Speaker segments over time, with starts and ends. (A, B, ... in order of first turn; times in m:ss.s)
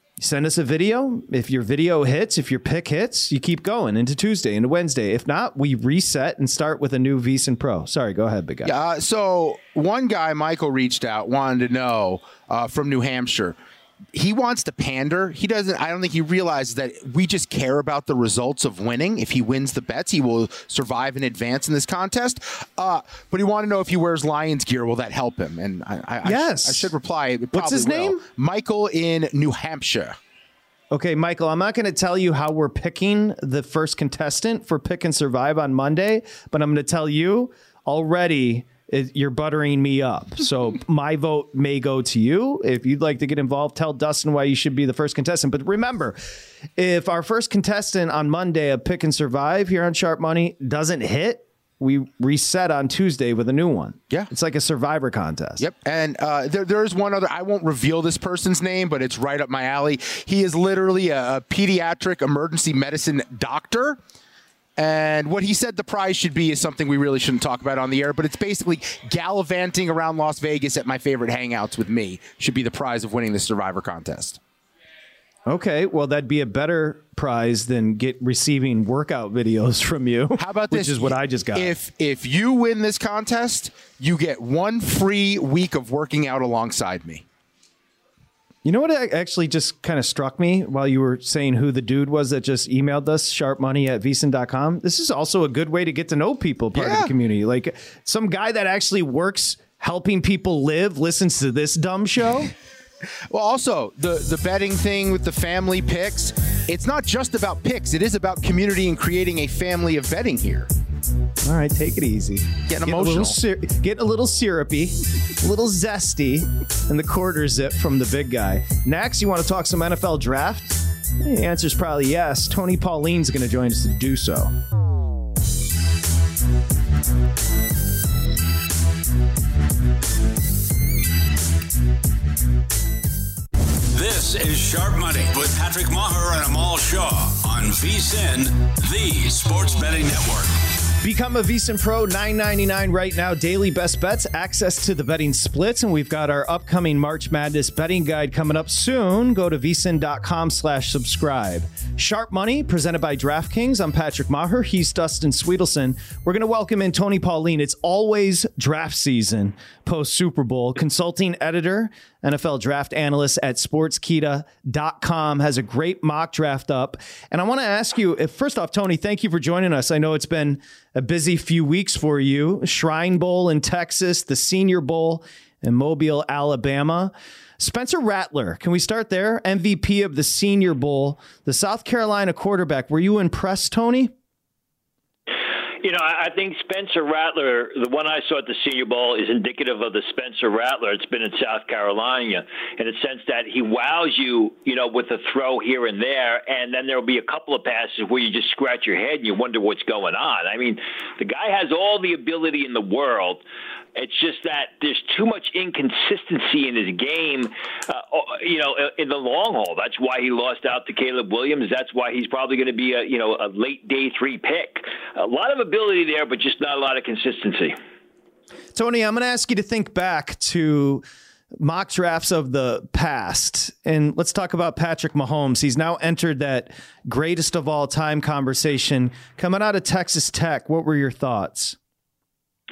0:00.2-0:08.7 A
0:08.6-0:13.6 B
0:14.1-0:30.2 B
0:26.2-0:26.9 A
0:27.5-0:28.2 A
0:30.9-0:46.2 A
0:46.8-0:55.6 A
0:55.6-1:04.0 B
1:04.8-1:14.4 B
1:15.4-1:21.7 A
1:20.4-1:27.2 B
1:28.6-1:42.5 A
1:36.7-1:37.1 B
1:43.3-1:50.7 B
1:51.4-2:04.5 A
1:52.7-1:53.4 B
2:13.9-2:20.6 C
2:21.0-3:04.1 A
3:05.8-3:23.4 D
3:23.9-3:37.8 D
3:38.7-3:41.0 A
3:41.5-3:51.8 A